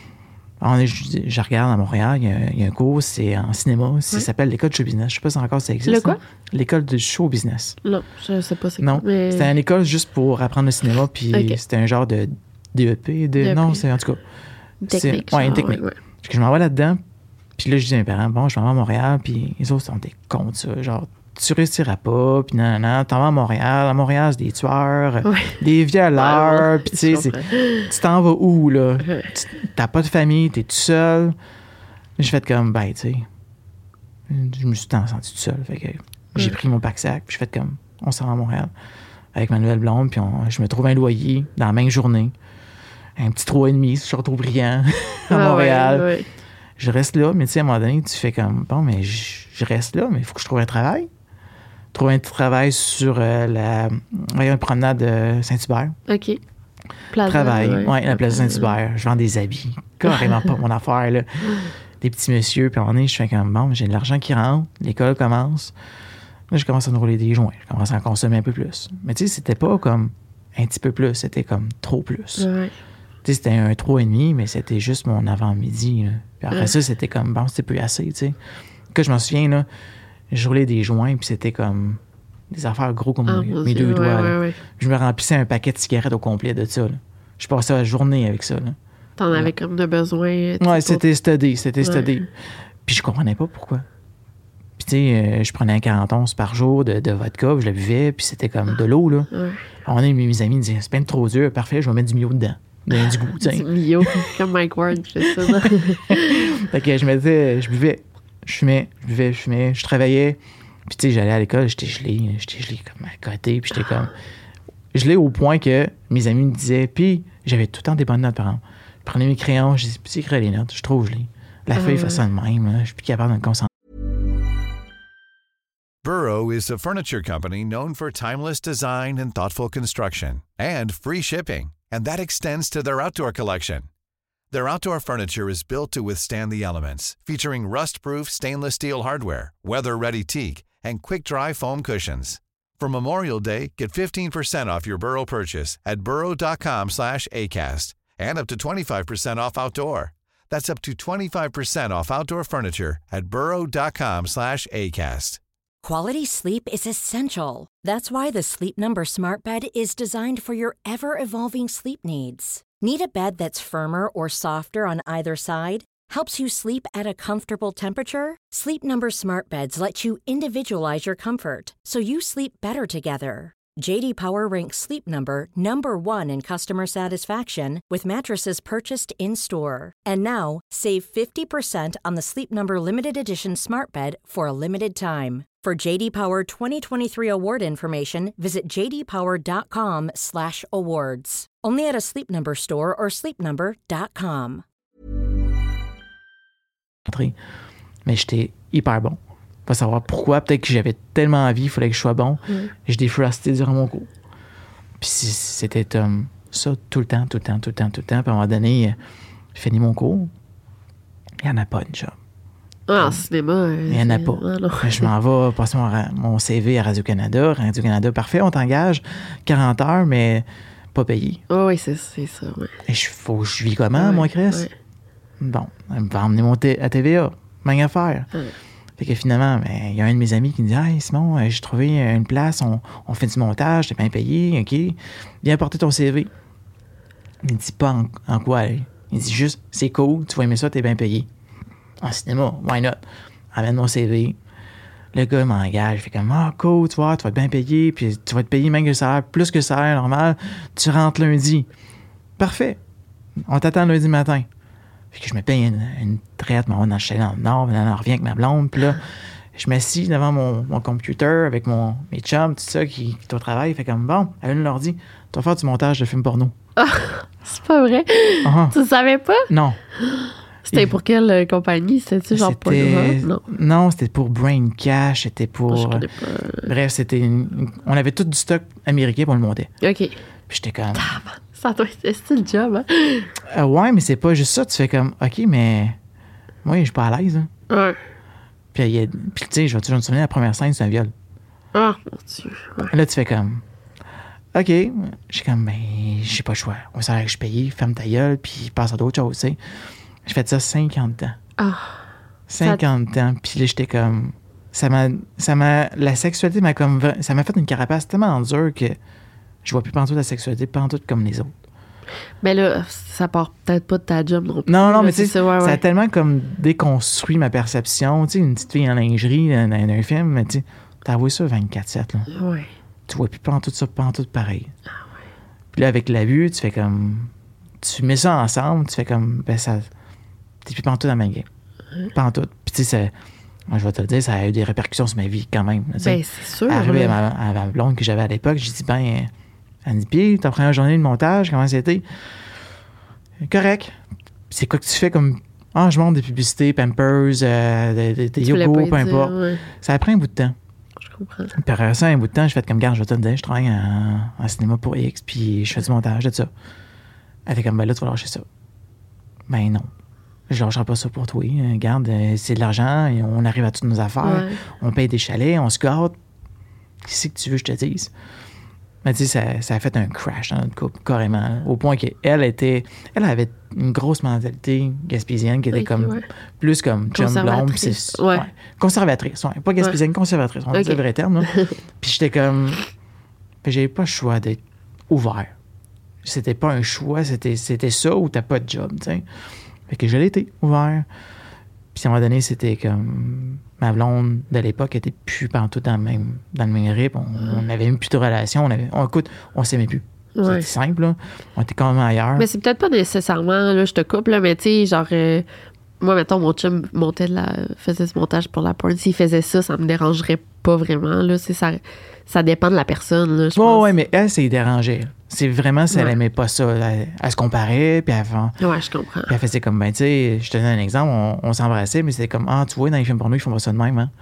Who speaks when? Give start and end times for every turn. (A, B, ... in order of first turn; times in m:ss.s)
0:00.6-0:07.8 A
0:05.8-0:06.2 B
0:07.8-0:09.5 B
0:08.8-0:14.2 A
0:11.3-0:11.6 B
0:13.4-0:13.8 B
0:14.8-0:16.0 B
0:14.9-0:17.0 A
0:17.6-0:31.4 A
0:25.2-0:25.6 B
0:26.1-0:27.9 B
0:29.0-0:29.3 B
0:32.2-0:33.3 A
0:34.3-0:38.7 A
0:39.3-0:42.3 A
0:43.2-0:46.1 A
0:45.3-0:46.3 B
0:46.8-0:51.1 A
0:51.9-0:56.0 A
0:56.1-0:56.4 B
0:57.1-0:58.7 B
0:57.2-1:05.7 A
1:06.5-1:12.5 A
1:12.4-1:12.7 B
1:13.2-1:18.4 A
1:18.9-1:19.7 A
1:20.3-1:28.8 A
1:23.3-1:24.6 B
1:29.2-1:31.0 B
1:30.6-1:32.3 A
1:31.8-1:32.1 B
1:32.8-1:33.8 A
1:34.8-1:39.3 A
1:39.3-1:39.6 B
1:39.8-1:44.3 A
1:43.4-1:46.4 B
1:45.2-1:54.1 A
1:54.9-2:03.7 A
2:01.8-2:02.2 B
2:06.0-2:13.9 C
2:14.5-2:35.4 C
2:35.8-3:14.6 D
3:17.0-3:17.4 A
3:18.0-3:24.1 A
3:25.0-3:29.0 A
3:29.5-3:30.3 A
3:31.4-3:32.1 A
3:32.9-3:35.1 B
3:33.0-3:33.2 A
3:33.9-3:41.4 A
3:41.5-3:42.8 B
3:42.8-3:44.7 A
3:43.9-3:44.7 B
3:45.4-3:48.3 A
3:49.0-3:56.3 A
3:57.4-4:01.3 A
4:02.0-4:03.0 A
4:03.5-4:04.4 A
4:05.1-4:11.7 A
4:12.4-4:12.8 A
4:13.4-4:14.5 A
4:15.1-4:26.5 A
4:26.8-4:33.4 B
4:28.4-4:28.8 A
4:29.5-4:29.8 A
4:30.7-4:31.0 A
4:32.3-4:36.1 A
4:35.7-4:36.7 B
4:36.6-4:39.7 A
4:39.8-4:40.2 B
4:40.5-4:41.1 A
4:40.9-4:43.3 B
4:43.5-4:46.0 A
4:46.6-4:47.5 A
4:47.7-4:48.0 B
4:48.7-4:51.1 A
4:51.7-4:52.9 B
4:52.8-4:53.6 A
4:54.5-4:59.6 A
5:00.2-5:01.4 A
5:01.6-5:02.0 B
5:02.5-5:09.0 A
5:09.6-5:11.5 A
5:12.4-5:15.8 B
5:14.7-5:22.3 A
5:22.3-5:22.7 B
5:23.1-5:24.7 A
5:25.7-5:29.9 A
5:30.6-5:31.5 A
5:32.1-5:33.1 A
5:33.7-5:39.3 A
5:36.0-5:37.2 B
5:39.8-5:42.0 A
5:43.4-5:44.0 A
5:44.5-5:50.6 A
5:48.4-5:49.7 B
5:51.0-5:51.5 B
5:51.5-5:56.5 A
5:57.4-5:58.4 A
5:59.5-5:59.9 A
6:00.5-6:06.2 A
6:04.2-6:04.6 B
6:07.0-6:08.1 A
6:09.0-6:22.8 A
6:15.7-6:16.2 B
6:17.1-6:18.4 B
6:20.7-6:21.8 B
6:23.6-6:25.5 A
6:26.2-6:29.2 A
6:29.9-6:31.1 A
6:31.9-6:42.5 A
6:40.4-6:40.7 B
6:42.4-6:45.4 B
6:46.0-6:53.9 B
6:53.5-6:58.6 A
6:58.6-6:59.3 B
6:59.3-7:04.1 A